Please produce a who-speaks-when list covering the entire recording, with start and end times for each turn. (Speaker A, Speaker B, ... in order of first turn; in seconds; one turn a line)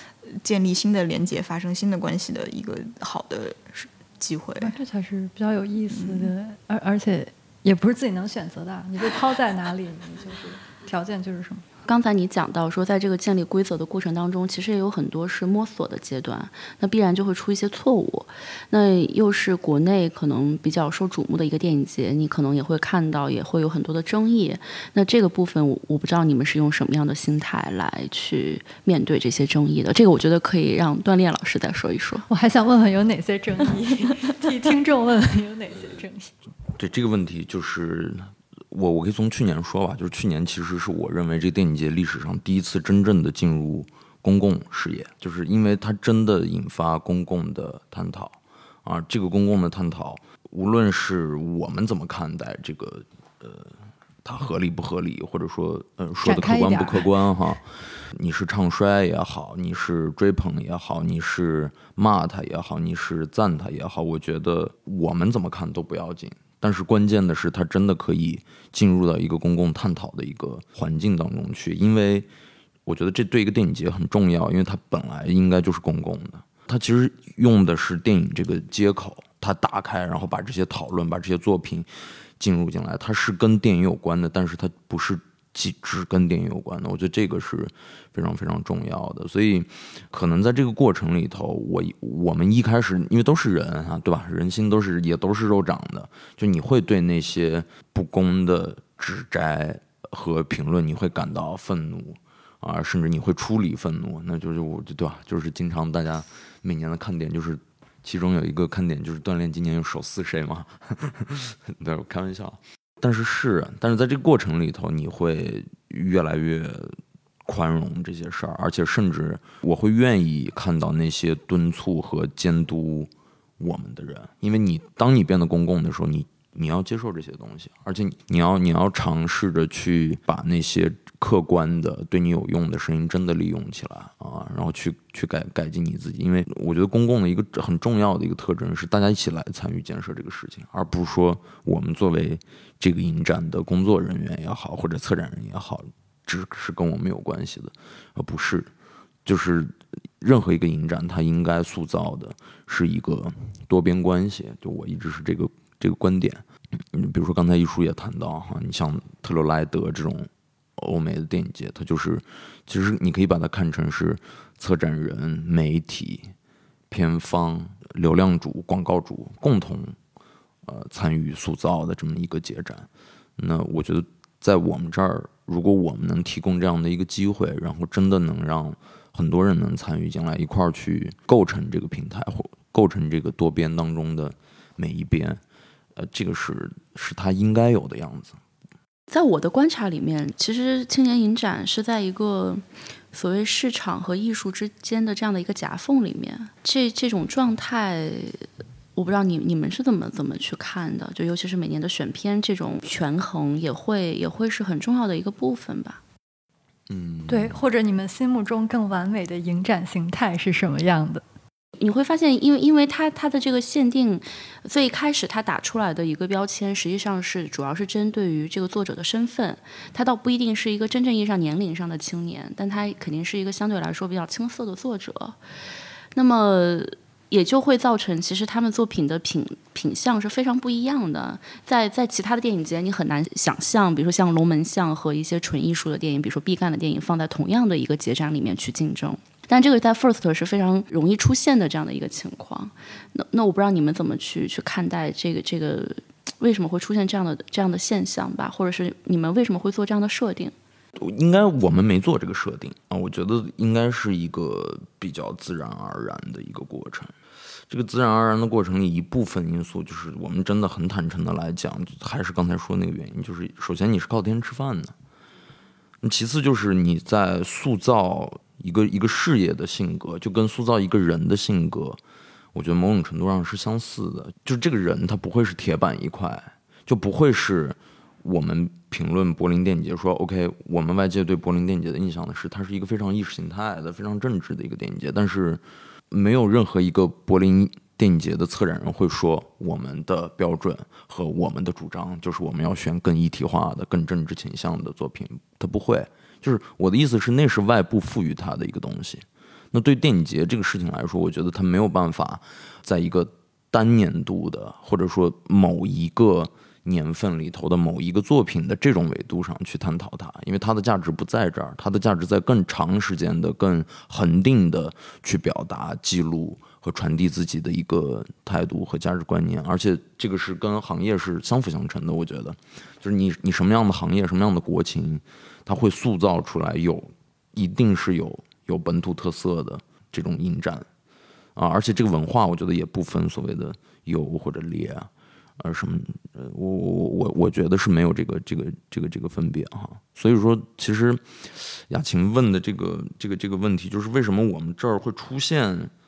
Speaker A: 0.3-4.7
Speaker B: 4.6-11.7
Speaker A: 5.9-6.3
Speaker C: 11.8-32.3
Speaker B: 32.3-36.3
Speaker D: 36.8-72.3
Speaker B: 56.2-57.1
Speaker D: 72.9-148.7
Speaker D: 149.2-166.3
Speaker D: 166.9-170.0
Speaker D: 170.7-185.4
Speaker D: 186.0-188.4
Speaker C: 189.1-198.4
Speaker C: 199.0-206.0
Speaker D: 206.9-207.6
Speaker B: 207.3-211.2
Speaker C: 211.8-225.4
Speaker C: 226.1-250.6
Speaker D: 251.0-257.1
Speaker D: 257.7-264.9
Speaker D: 266.0-272.0
Speaker D: 272.5-330.9
Speaker D: 331.6-345.9